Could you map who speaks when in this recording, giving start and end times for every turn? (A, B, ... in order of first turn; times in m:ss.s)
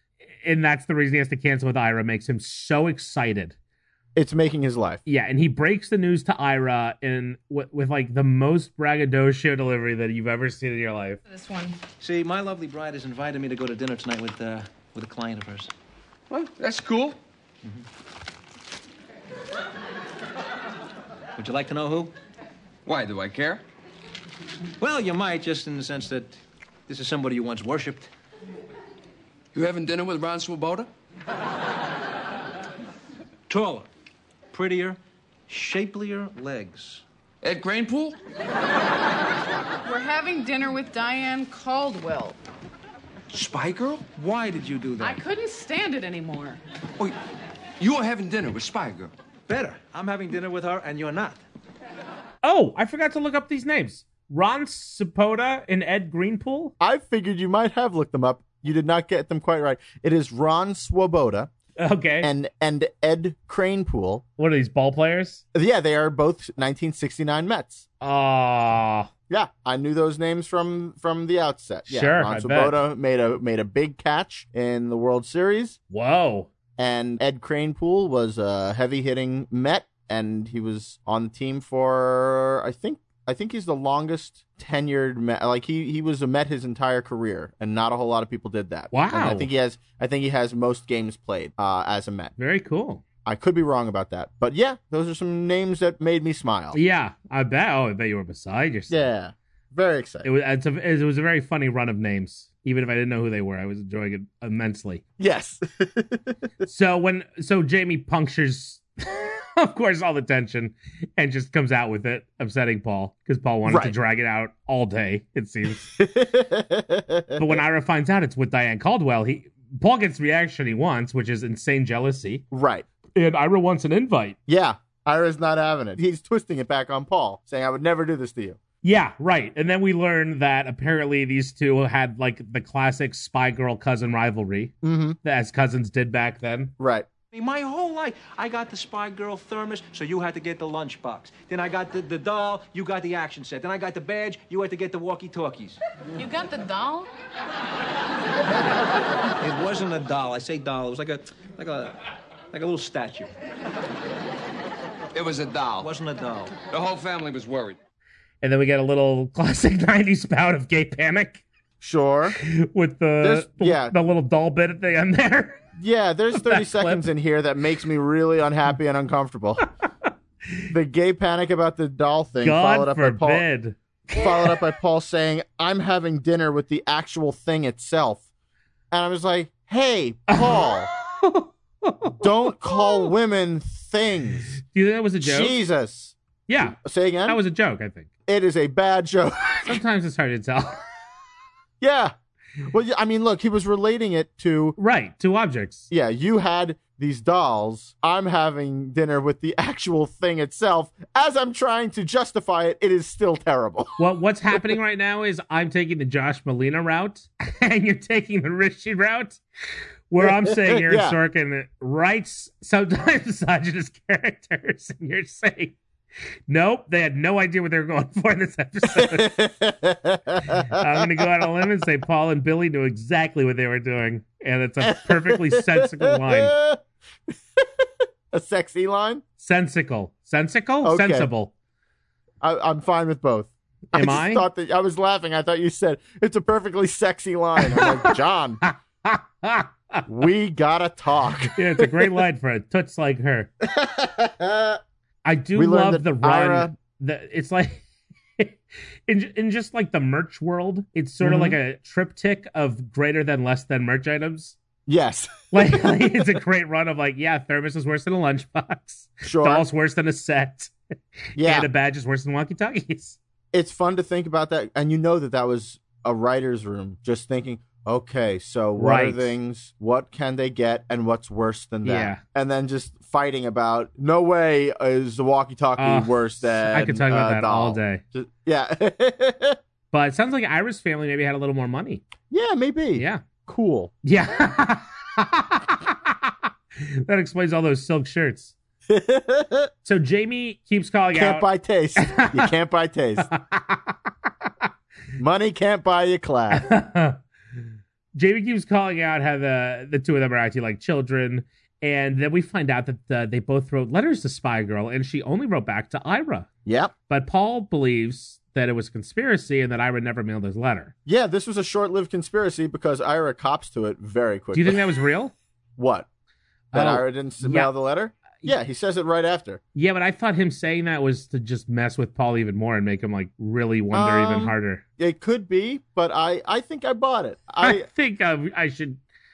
0:00.4-0:03.6 A
0:04.2-0:05.0 B
0:05.1-0:11.2 A
0:11.3-0:11.8 C
0:12.0-0:15.7 D
0:16.3-0:17.2 E
0:21.4-0:22.1 D
0:22.9-0:23.6 E
0:24.8-0:26.4 D
0:26.9-0:28.1 D
0:29.5-0:30.9 E
0:33.5-0:33.9 D
0:34.5-0:37.0 D
0:37.4-0:38.2 E
0:39.8-0:42.4 C
0:43.3-0:45.2 D
0:45.0-0:46.6 C
0:47.8-0:49.1 E
0:49.5-0:51.4 D
0:52.4-0:56.7 A
0:56.8-1:01.5 B
1:01.8-1:02.3 A
1:02.2-1:04.2 B
1:04.4-1:05.4 A
1:05.5-1:07.8 B
1:08.0-1:09.1 A
1:09.3-1:15.8 B
1:11.9-1:12.8 A
1:15.9-1:16.5 A
1:16.8-1:32.3 B
1:28.9-1:29.5 A
1:32.4-1:33.0 A
1:33.2-1:36.8 B
1:36.7-1:39.0 A
1:38.9-1:40.3 B
1:40.2-1:45.0 A
1:45.2-1:46.4 B
1:46.7-1:55.9 A
1:53.7-1:54.0 B
1:55.9-1:57.6 B
1:57.4-2:02.4 A
2:02.5-2:02.9 B
2:03.2-2:04.4 A
2:04.5-2:08.6 B
2:08.8-2:16.8 A
2:14.8-2:15.2 B
2:16.8-2:17.1 B
2:17.3-2:25.8 D
2:26.2-2:27.1 C
2:29.4-2:32.0 D
2:32.5-2:33.3 D
2:35.1-2:35.9 E
2:35.8-2:36.6 D
2:36.7-2:37.8 E
2:38.4-2:41.4 A
2:41.8-2:42.4 B
2:42.4-2:45.7 A
2:43.2-2:43.9 B
2:45.8-2:49.7 B
2:46.3-2:47.1 A
2:50.7-2:53.4 B
2:52.4-2:54.6 A
2:54.1-2:58.2 B
2:58.9-3:00.9 B
3:00.3-3:03.1 A
3:02.2-3:04.5 B
3:04.6-3:05.6 A
3:05.2-3:07.4 B
3:06.5-3:08.1 A
3:08.3-3:09.8 B
3:09.6-3:10.8 A
3:11.8-3:12.2 B
3:12.7-3:14.8 B
3:14.8-3:15.9 A
3:15.9-3:23.9 B
3:24.0-3:29.4 A
3:30.1-3:35.8 A
3:30.2-3:31.2 B
3:36.5-3:39.4 A
3:38.9-3:41.3 B
3:40.5-3:46.6 A
3:44.8-3:46.8 B
3:47.6-3:49.2 B
3:49.4-3:51.5 A
3:50.8-3:51.3 B
3:52.4-3:58.6 B
3:53.9-3:54.5 A
3:57.6-3:58.2 A
3:58.7-4:00.0 A
4:00.1-4:02.0 B
4:01.6-4:03.5 A
4:03.6-4:04.8 B
4:05.2-4:07.8 A
4:05.6-4:06.7 B
4:08.4-4:14.6 A
4:11.2-4:11.6 B
4:14.9-4:16.2 B
4:15.5-4:20.7 A
4:19.2-4:19.7 B
4:21.3-4:23.2 A
4:21.4-4:21.7 B
4:23.5-4:39.6 B
4:28.8-4:29.3 A
4:31.8-4:32.2 A
4:35.8-4:38.0 A
4:39.9-4:42.0 A
4:42.3-4:43.9 B
4:43.0-4:43.2 A
4:44.0-4:48.5 A
4:48.9-4:49.7 B
4:49.8-4:52.5 A
4:51.1-4:53.3 B
4:53.2-4:54.0 A
4:55.2-4:56.7 B
4:56.5-4:57.2 A
4:58.2-5:06.5 A
5:06.7-5:06.9 B
5:07.1-5:10.9 A
5:11.1-5:14.8 B
5:14.5-5:15.3 A
5:15.8-5:16.1 B
5:16.7-5:17.7 A
5:16.7-5:19.6 B
5:19.8-5:24.8 A
5:23.9-5:27.9 B
5:27.6-5:29.0 A